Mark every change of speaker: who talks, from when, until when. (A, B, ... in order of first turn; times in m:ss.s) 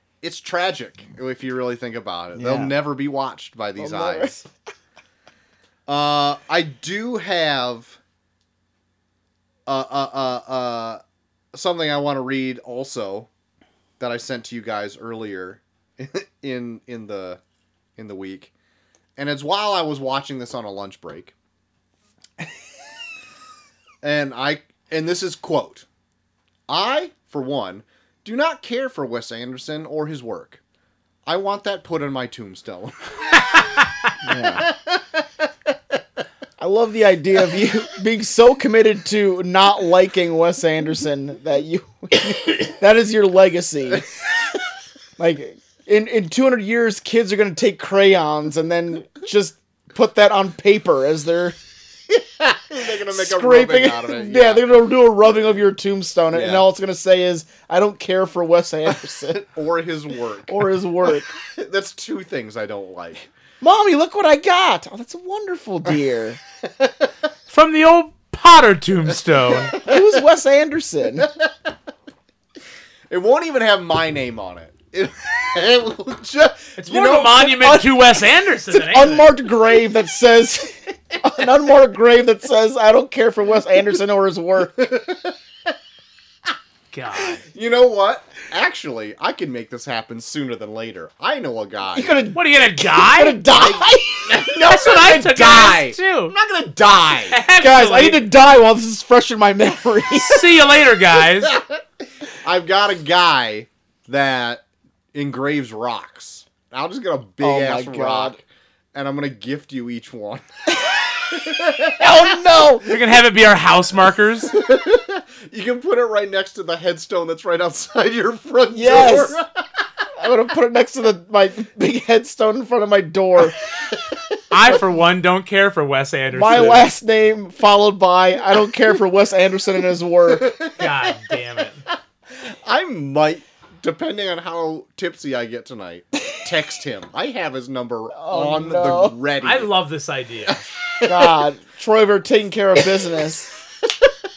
0:00.2-0:04.3 A
0:02.4-0:02.8 B
0:03.8-0:04.5 B
0:05.9-0:08.0 A
0:09.7-0:11.0 A
0:11.5-0:13.3 A
0:14.0-0:17.4 A
0:18.0-0:18.5 A
0:19.2-0:21.3 A
0:24.0-0:25.9 A
0:26.7-0:30.6 A
0:31.3-0:33.6 A
0:34.2-0:34.7 B
0:34.6-0:35.3 A
0:36.6-0:44.1 B
0:45.2-0:51.6 B
0:52.1-0:54.7 A
0:53.1-0:59.4 B
0:56.3-0:56.7 A
0:59.2-1:03.3 A
1:00.5-1:01.3 B
1:03.6-1:06.4 B
1:06.6-1:07.1 A
1:07.5-1:09.8 C
1:09.6-1:09.9 A
1:09.8-1:11.3 B
1:11.2-1:11.5 A
1:13.1-1:17.6 A
1:16.8-1:19.3 C
1:17.5-1:18.0 B
1:18.7-1:24.9 B
1:24.8-1:25.4 A
1:26.9-1:27.4 C
1:27.2-1:32.1 A
1:31.9-1:34.4 B
1:32.3-1:33.5 C
1:33.5-1:37.4 A
1:34.6-1:36.4 C
1:37.2-1:38.3 C
1:37.6-1:40.4 B
1:40.2-1:41.6 C
1:41.2-1:50.4 A
1:47.4-1:48.4 B
1:51.2-1:52.4 A
1:52.0-1:52.9 B
1:52.9-1:54.5 C
1:54.5-1:59.5 A
1:58.7-1:59.4 B
2:00.2-2:03.6 B
2:03.9-2:04.2 A
2:04.5-2:06.9 C
2:06.3-2:10.6 B
2:10.3-2:11.1 A
2:10.8-2:11.8 C
2:12.3-2:19.8 A
2:18.1-2:19.2 B
2:19.4-2:20.6 C
2:21.0-2:23.5 B